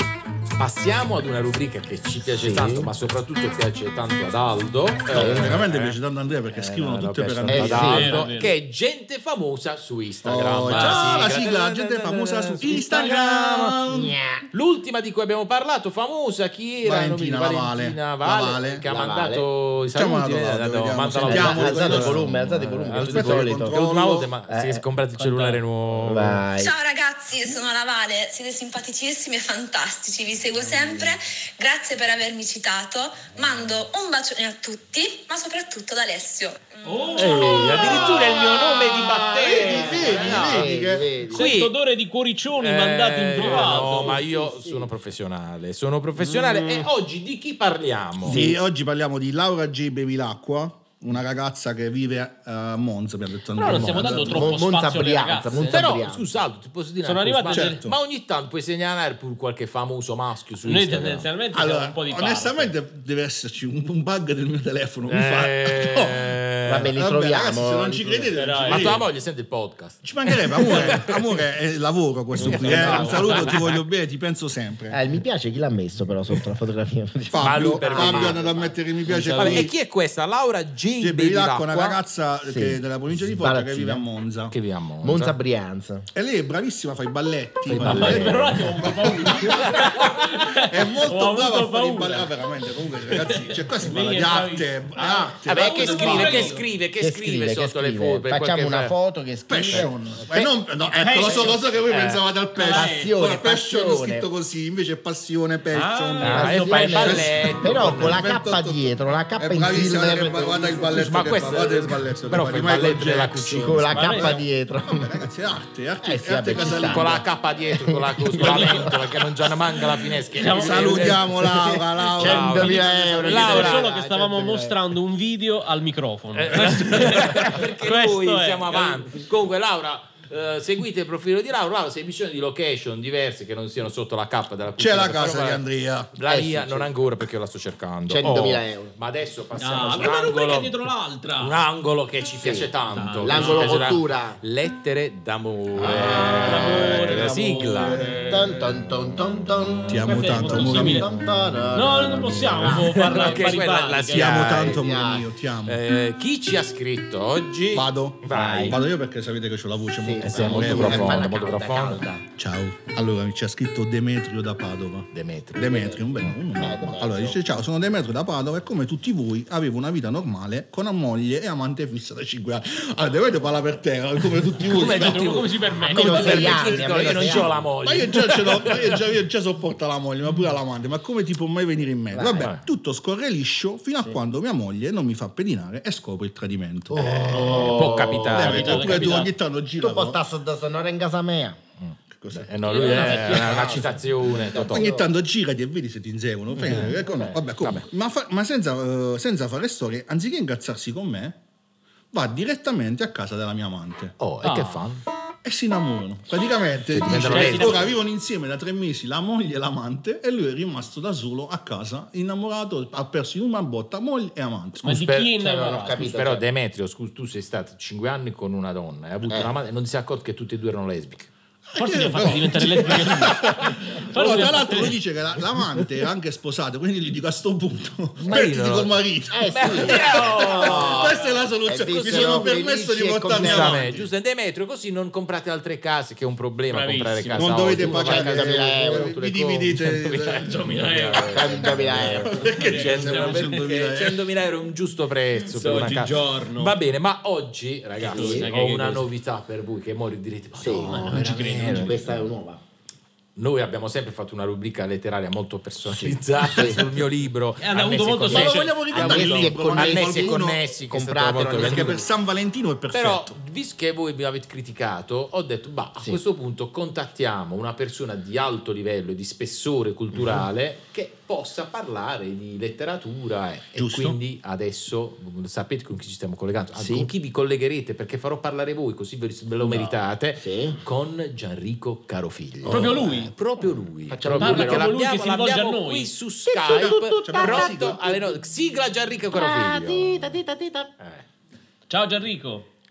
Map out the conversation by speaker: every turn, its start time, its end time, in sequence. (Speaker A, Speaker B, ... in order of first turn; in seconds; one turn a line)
Speaker A: 0.6-13.8
Speaker B: 2.3-2.9
Speaker B: 5.1-5.6
Speaker C: 5.1-8.2
Speaker B: 7.5-8.2
Speaker D: 7.8-8.5
Speaker C: 10.2-14.1
Speaker D: 10.7-11.3
Speaker B: 13.9-14.4
Speaker A: 14.5-26.4
Speaker C: 16.8-18.8
Speaker B: 18.8-19.5
Speaker C: 19.9-22.3
Speaker B: 21.2-23.8
Speaker C: 22.9-24.3
Speaker B: 24.5-24.8
Speaker D: 25.2-25.6
Speaker B: 26.0-26.7
Speaker E: 26.6-37.7
Speaker D: 36.8-38.7
Speaker A: 37.1-40.7
Speaker C: 37.4-41.1
Speaker B: 39.5-41.5
Speaker D: 39.9-40.3
Speaker D: 41.2-44.2
Speaker A: 41.3-41.7
Speaker A: 42.6-48.4
Speaker B: 43.4-44.9
Speaker D: 46.2-46.9
Speaker B: 48.2-48.6
Speaker C: 48.2-54.6
Speaker D: 53.5-55.9
Speaker A: 53.6-54.3
Speaker B: 54.2-56.3
Speaker A: 55.6-61.3
Speaker D: 57.0-57.8
Speaker C: 57.5-58.0
Speaker D: 60.6-62.7
Speaker C: 61.5-69.0
Speaker A: 65.1-66.9
Speaker B: 66.7-68.3
Speaker D: 68.3-69.0
Speaker A: 68.7-71.3
Speaker C: 70.0-75.0
Speaker D: 72.3-73.6
Speaker A: 72.4-73.8
Speaker B: 72.7-73.1
Speaker B: 74.9-78.7
Speaker C: 77.3-79.7
Speaker A: 77.4-78.5
Speaker D: 79.0-79.7
Speaker A: 79.3-82.0
Speaker C: 81.0-84.5
Speaker B: 82.5-84.0
Speaker A: 84.5-85.4
Speaker B: 85.0-86.1
Speaker C: 86.1-96.5
Speaker B: 87.7-88.4
Speaker A: 87.7-88.5
Speaker D: 87.8-92.3
Speaker A: 89.7-90.0
Speaker D: 93.0-96.7
Speaker A: 95.0-98.9
Speaker B: 95.8-96.4
Speaker B: 97.0-99.9
Speaker C: 99.5-113.8
Speaker A: 99.7-100.5
Speaker D: 100.9-101.7
Speaker A: 101.9-102.2
Speaker D: 102.5-103.1
Speaker B: 102.7-104.3
Speaker D: 105.7-107.3
Speaker A: 106.2-108.3
Speaker B: 106.3-111.5
Speaker A: 110.9-114.4
Speaker B: 113.4-115.3
Speaker D: 113.9-114.4
Speaker C: 114.9-117.3
Speaker B: 116.0-119.2
Speaker A: 116.6-121.4
Speaker D: 118.4-119.0
Speaker D: 120.3-121.3
Speaker C: 120.5-123.4
Speaker B: 121.3-124.8
Speaker A: 122.1-123.9
Speaker D: 122.8-129.2
Speaker A: 126.3-140.8
Speaker C: 134.8-136.1
Speaker B: 136.2-136.9
Speaker B: 138.1-138.9
Speaker D: 139.6-141.6
Speaker A: 141.4-148.1
Speaker B: 142.4-144.4
Speaker D: 142.9-144.0
Speaker D: 145.8-148.4
Speaker B: 145.8-146.5
Speaker C: 145.8-148.2
Speaker B: 148.2-153.4
Speaker C: 149.9-151.1
Speaker D: 150.0-151.1
Speaker D: 151.7-154.6
Speaker A: 152.8-154.8
Speaker C: 154.1-155.8
Speaker B: 154.6-155.3
Speaker A: 155.7-158.8
Speaker C: 157.7-161.3
Speaker B: 158.3-158.8
Speaker B: 160.0-162.2
Speaker A: 160.2-162.1
Speaker C: 162.4-175.4
Speaker A: 165.1-165.9
Speaker B: 165.6-167.4
Speaker A: 174.6-179.0
Speaker D: 174.6-176.8
Speaker B: 175.8-177.6
Speaker C: 176.1-190.2
Speaker B: 182.1-182.5
Speaker A: 182.3-182.6
Speaker B: 186.9-188.8
Speaker A: 186.9-189.2
Speaker D: 188.3-189.3
Speaker B: 189.8-191.6
Speaker A: 191.8-194.9
Speaker C: 192.1-192.5
Speaker D: 192.6-193.9
Speaker B: 192.8-195.1
Speaker C: 193.0-193.3
Speaker C: 194.5-201.4
Speaker B: 196.5-197.4
Speaker A: 196.6-196.9
Speaker A: 197.6-197.9
Speaker C: 202.1-204.2
Speaker A: 204.2-205.0
Speaker D: 204.4-204.8
Speaker C: 205.4-214.8
Speaker A: 206.9-207.9
Speaker D: 207.1-207.9
Speaker D: 214.8-216.1
Speaker A: 214.8-215.3
Speaker B: 215.4-216.4
Speaker A: 215.9-221.3
Speaker B: 219.3-219.5
Speaker C: 221.7-234.1
Speaker D: 221.8-225.0
Speaker A: 228.2-231.2
Speaker B: 229.3-234.0
Speaker A: 231.8-232.5
Speaker A: 233.3-252.2
Speaker D: 236.7-237.6
Speaker C: 237.3-240.6
Speaker B: 237.7-239.1
Speaker D: 240.4-243.7
Speaker B: 241.3-242.4
Speaker C: 241.6-244.2
Speaker D: 245.4-246.8
Speaker D: 248.0-249.1
Speaker B: 248.1-248.5
Speaker B: 250.6-252.6
Speaker D: 250.8-252.0
Speaker A: 253.3-262.0
Speaker B: 255.8-256.9
Speaker D: 257.6-258.8
Speaker C: 258.3-260.6
Speaker B: 258.3-262.1
Speaker C: 261.4-263.4
Speaker A: 262.9-290.4
Speaker C: 273.8-274.2
Speaker B: 276.7-277.1
Speaker B: 279.6-280.8
Speaker D: 282.6-283.3
Speaker B: 284.1-284.9
Speaker D: 284.4-286.1
Speaker B: 286.5-288.2
Speaker C: 286.6-288.3
Speaker B: 289.3-290.9
Speaker A: 291.0-291.2
Speaker D: 291.9-292.7